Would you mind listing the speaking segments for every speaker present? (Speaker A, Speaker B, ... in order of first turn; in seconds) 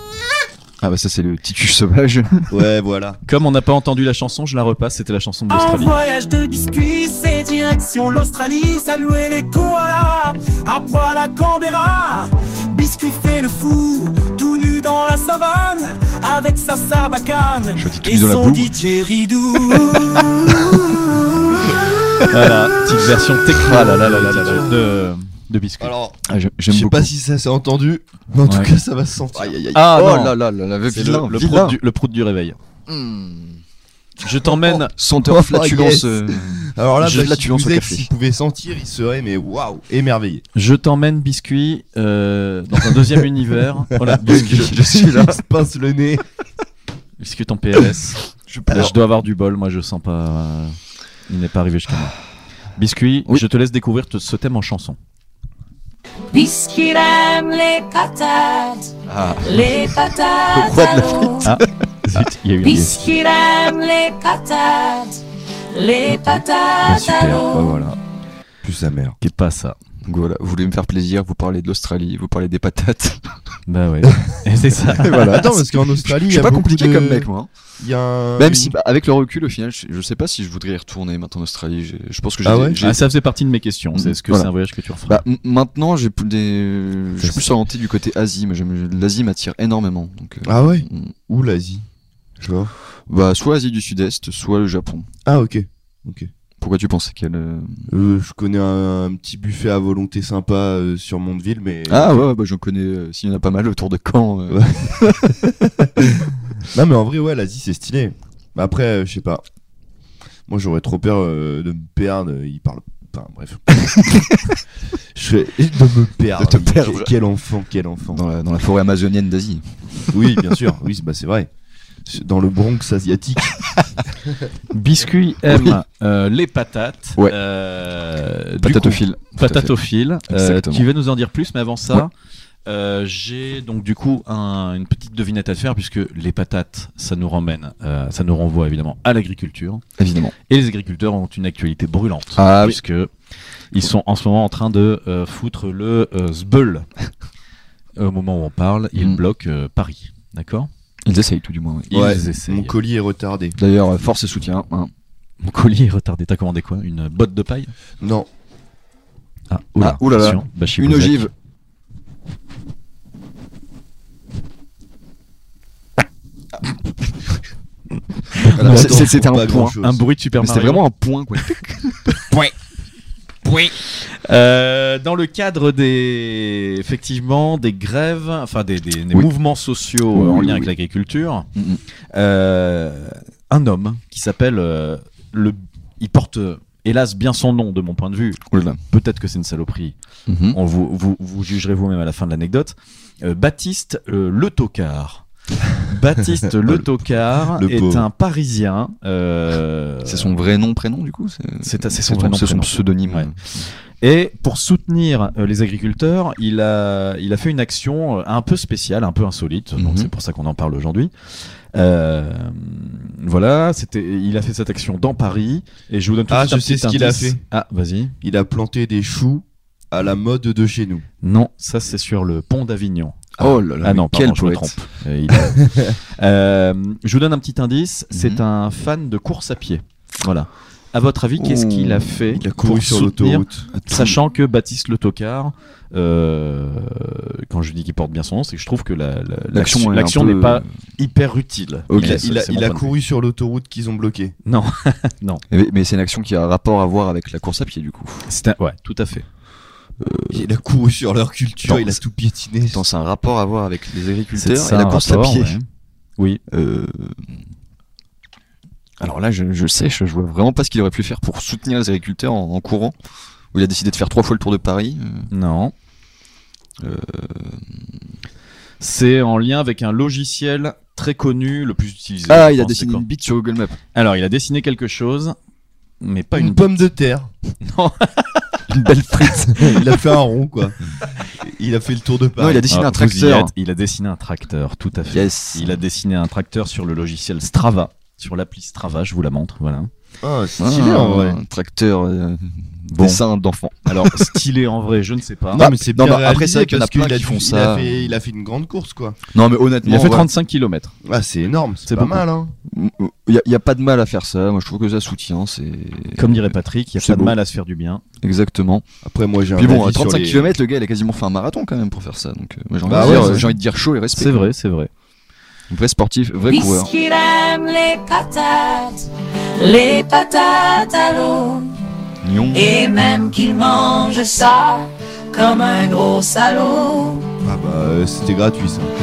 Speaker A: 0.8-2.5, 17.8-18.7, 23.5-24.7, 26.3-27.1, 29.9-31.8, 32.9-33.6, 34.5-38.1, 44.2-45.4, 48.5-49.0, 59.1-60.0, 60.5-61.7, 70.0-73.6, 74.9-77.5, 78.4-83.1, 83.9-84.5, 85.1-91.1, 93.1-95.1, 96.6-97.9, 101.9-105.3, 114.0-114.5, 116.4-117.1, 118.1-120.4, 125.5-125.8, 128.6-129.7, 130.3-130.9, 140.0-140.3, 142.4-142.8, 148.9-149.2, 151.1-152.2, 153.6-154.9, 159.8-161.3, 168.3-169.8, 170.4-172.2, 180.1-180.7, 181.6-181.8, 188.5-188.8, 190.3-190.6, 200.1-203.7, 209.8-210.1, 223.4-224.8, 228.1-228.4, 231.4-232.5, 233.7-234.2, 239.5-240.7, 241.9-242.3, 245.5-248.3, 250.0-250.5, 252.7-255.6, 256.5-257.5, 259.0-263.0, 263.5-265.3, 266.8-267.9, 272.3-273.8, 278.7-279.9, 282.4-283.5, 285.1-285.8, 290.6-294.3, 295.6-298.2, 299.3-300.3, 302.7-307.4, 308.2-308.9, 309.6-314.5, 315.7-316.9, 322.2-322.8
Speaker B: 2.5-3.2, 24.3-24.7, 25.8-30.0, 35.2-40.4, 44.0-46.2, 67.2-68.0, 68.6-69.2, 75.1-78.8, 82.4-82.8, 90.5-91.8, 92.4-92.7, 95.2-96.3, 97.9-102.2, 104.5-106.0, 106.7-109.4, 110.5-113.7, 115.1-118.2, 120.1-121.5, 122.0-123.6, 151.9-153.6, 158.0-158.3, 168.4-170.0, 197.5-198.1, 216.3-217.4, 218.2-221.1, 225.6-226.0, 232.4-233.7, 241.9-244.3, 250.3-252.8, 276.3-277.3, 279.6-280.8, 281.3-282.7, 290.2-291.4, 295.5-299.2, 301.0-302.5, 309.0-310.6, 312.8-313.6, 327.4-328.9
Speaker C: 3.3-6.0, 22.3-25.9, 28.4-28.7, 29.7-32.6, 34.2-34.9, 40.5-44.7, 47.2-50.8, 51.3-52.1, 52.8-55.0, 61.5-63.2, 66.8-67.4, 69.2-69.8, 73.7-75.3, 82.8-85.2, 124.7-132.1, 132.7-139.8, 140.5-143.1, 143.7-146.9, 148.0-150.7, 151.9-152.7, 155.4-157.7, 159.5-161.3, 168.4-169.1, 169.8-170.8, 173.8-181.5, 182.1-190.0, 190.5-195.2, 195.9-200.3, 201.6-203.3, 204.0-211.1, 211.7-218.2, 221.2-242.9, 244.5-245.4, 248.3-249.2, 254.4-255.7, 265.3-265.7, 268.8-273.1, 273.9-275.4, 276.0-276.7, 277.6-278.6, 282.7-289.9, 292.9-293.2, 293.9-295.7, 299.8-300.9, 301.9-302.2, 306.2-308.0, 312.9-313.5, 314.1-314.9
Speaker D: 5.5-20.5
Speaker E: 56.3-58.9, 59.4-61.4, 62.6-65.2, 65.7-67.8, 316.5-319.1, 319.6-321.7, 322.5-327.2